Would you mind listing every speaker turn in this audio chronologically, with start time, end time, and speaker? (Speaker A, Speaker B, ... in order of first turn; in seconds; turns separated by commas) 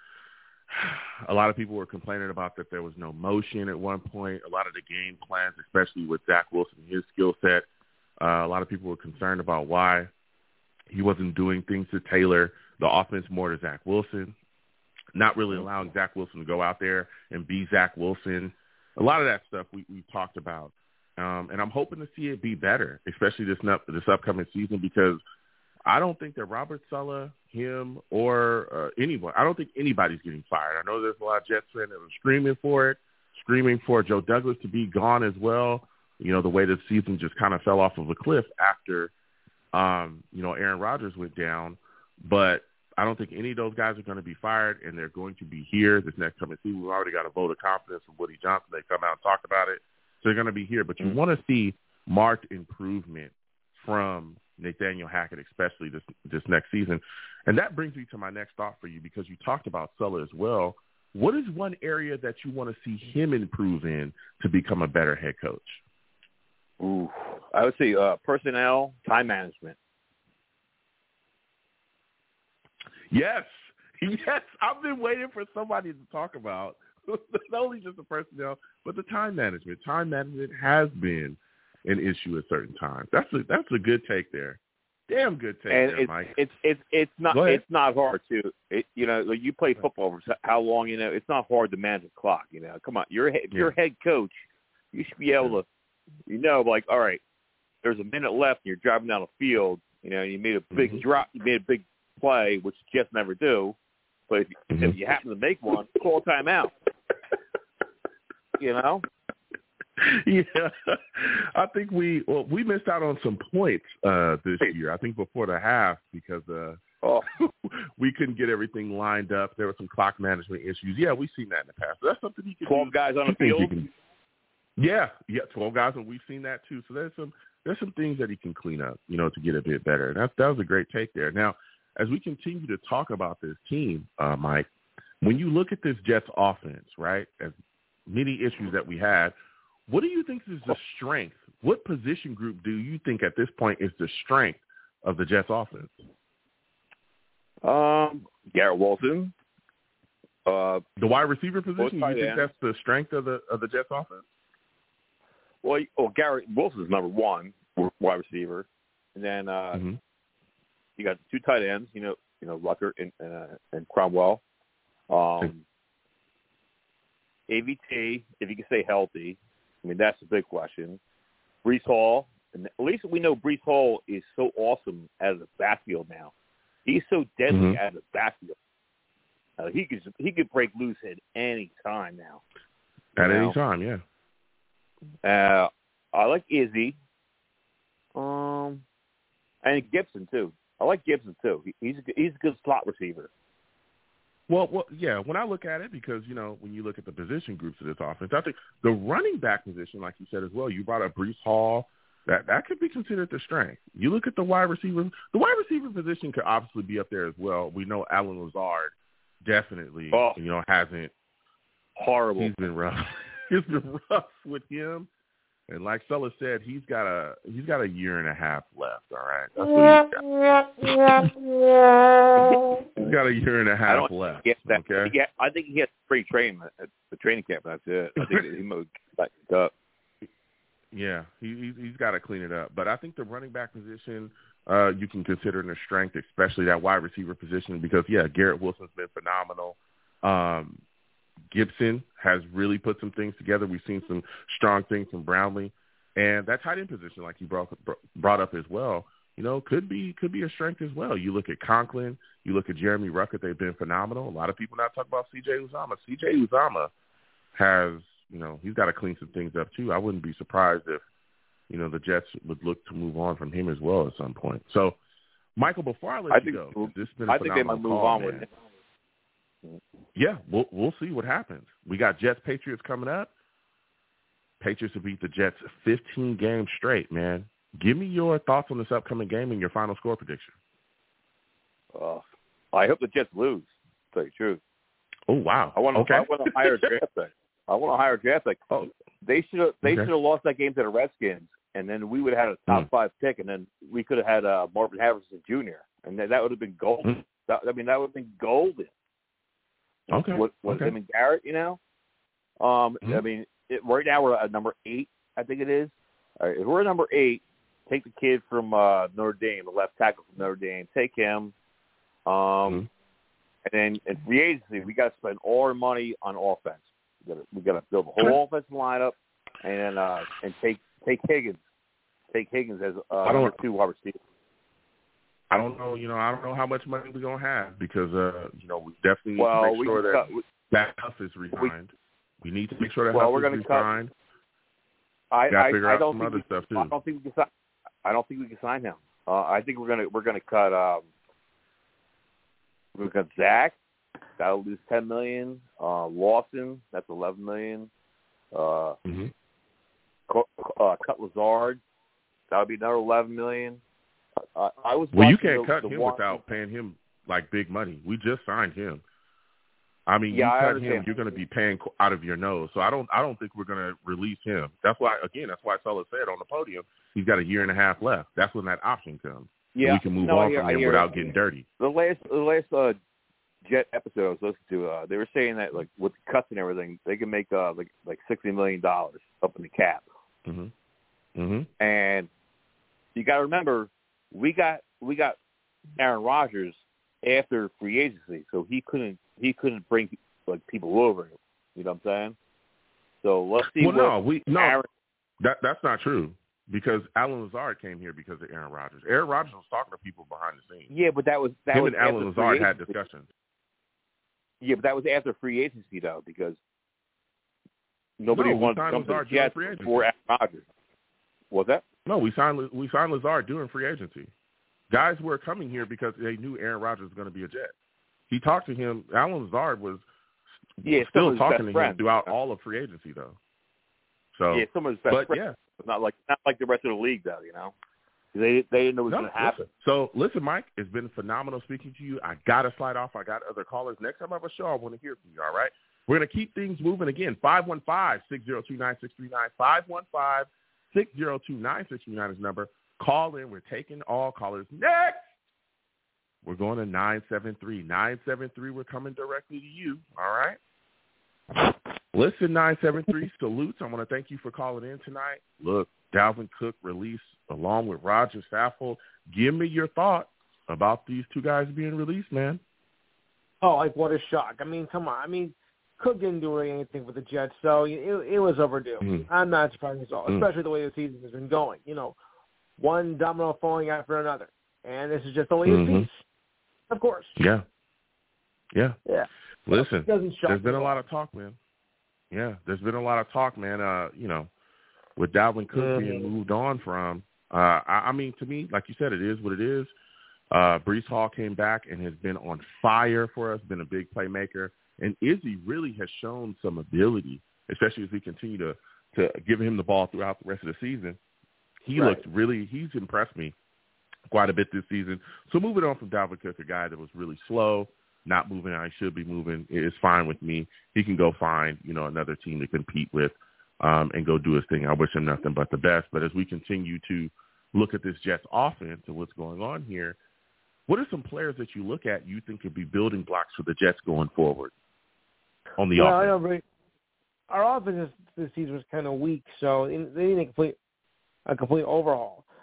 Speaker A: 0.7-7.7, Speaker A: 8.2-10.1, Speaker A: 10.9-14.3, Speaker A: 15.2-25.2, Speaker A: 25.9-39.1, Speaker A: 39.7-65.8, Speaker B: 66.8-69.8, Speaker A: 73.1-86.3, Speaker B: 85.7-94.4, Speaker A: 87.3-87.6, Speaker B: 94.9-95.7, Speaker B: 96.3-97.2, Speaker B: 97.8-103.8, Speaker A: 100.7-101.0, Speaker B: 104.3-106.7, Speaker A: 104.7-105.0, Speaker B: 108.6-109.1, Speaker A: 110.0-116.8, Speaker B: 117.0-117.3, Speaker A: 117.4-123.9, Speaker B: 122.7-123.9, Speaker A: 124.8-134.7, Speaker A: 135.2-137.6, Speaker A: 138.1-139.3, Speaker A: 139.9-146.0, Speaker B: 147.6-149.3, Speaker B: 150.5-150.8, Speaker A: 151.0-154.3, Speaker B: 151.8-152.4, Speaker B: 155.6-159.8, Speaker B: 161.0-164.4, Speaker B: 165.1-165.6, Speaker B: 167.5-171.0, Speaker B: 171.6-176.3, Speaker B: 176.8-178.6, Speaker A: 177.5-177.8, Speaker B: 179.6-182.4, Speaker B: 183.2-183.6, Speaker A: 183.2-184.0, Speaker B: 185.2-187.0, Speaker B: 188.2-188.8, Speaker B: 189.6-193.3, Speaker A: 194.5-211.1, Speaker B: 210.1-210.4, Speaker B: 212.0-212.5, Speaker A: 212.4-215.1, Speaker A: 215.7-220.3, Speaker A: 220.8-221.3, Speaker A: 222.4-225.1, Speaker B: 223.9-229.7, Speaker A: 228.2-228.4, Speaker A: 230.9-240.8, Speaker A: 241.5-256.9, Speaker A: 257.6-261.0, Speaker A: 261.7-265.0, Speaker A: 265.6-268.5, Speaker B: 266.3-268.5, Speaker A: 270.1-273.3, Speaker A: 274.6-280.5, Speaker B: 281.9-284.6, Speaker A: 285.3-286.8, Speaker B: 285.7-288.6, Speaker B: 289.2-298.9, Speaker A: 289.9-290.1, Speaker B: 300.1-301.8, Speaker A: 300.1-300.9, Speaker B: 302.6-311.5, Speaker B: 312.3-312.9, Speaker B: 313.7-321.6, Speaker B: 322.3-324.2, Speaker A: 323.2-323.6, Speaker A: 325.5-334.1, Speaker B: 329.4-330.4, Speaker B: 333.1-333.9, Speaker B: 335.3-337.5, Speaker A: 335.5-336.9, Speaker B: 338.0-341.1, Speaker B: 342.9-343.8, Speaker B: 344.4-347.9, Speaker B: 348.5-349.0, Speaker A: 349.1-349.3, Speaker B: 350.3-351.8, Speaker B: 352.5-353.8, Speaker B: 354.6-356.4, Speaker A: 355.1-359.0, Speaker A: 360.1-371.7, Speaker B: 360.3-361.1, Speaker B: 369.7-373.0, Speaker B: 373.6-380.1, Speaker A: 380.5-380.7, Speaker A: 381.4-381.7, Speaker B: 381.8-382.3, Speaker B: 383.1-385.4, Speaker B: 386.0-392.4, Speaker B: 393.2-394.9, Speaker A: 393.8-394.8, Speaker A: 395.4-400.9, Speaker B: 400.9-402.9, Speaker A: 401.7-403.3, Speaker B: 404.6-406.6, Speaker B: 408.2-410.6, Speaker A: 408.3-410.1, Speaker B: 411.5-411.8, Speaker A: 412.1-414.3, Speaker A: 414.9-417.7, Speaker A: 418.3-420.1, Speaker A: 420.8-423.4, Speaker B: 420.8-422.3, Speaker A: 424.4-425.6, Speaker B: 424.5-427.7, Speaker B: 428.3-429.7, Speaker A: 429.1-445.3, Speaker A: 446.4-450.6, Speaker A: 452.1-462.6, Speaker C: 463.6-472.2, Speaker A: 469.0-469.3, Speaker C: 472.8-476.2, Speaker A: 475.6-476.1, Speaker C: 476.9-477.4, Speaker A: 477.4-477.6, Speaker A: 478.7-479.0, Speaker C: 479.1-480.9, Speaker A: 479.7-481.6, Speaker A: 482.3-484.5, Speaker A: 485.2-489.9, Speaker C: 485.7-486.3, Speaker A: 490.5-501.2, Speaker A: 501.9-503.6, Speaker A: 504.3-520.2, Speaker A: 520.9-524.7, Speaker A: 525.8-526.3, Speaker C: 526.0-526.6, Speaker C: 527.5-530.8, Speaker C: 531.5-532.5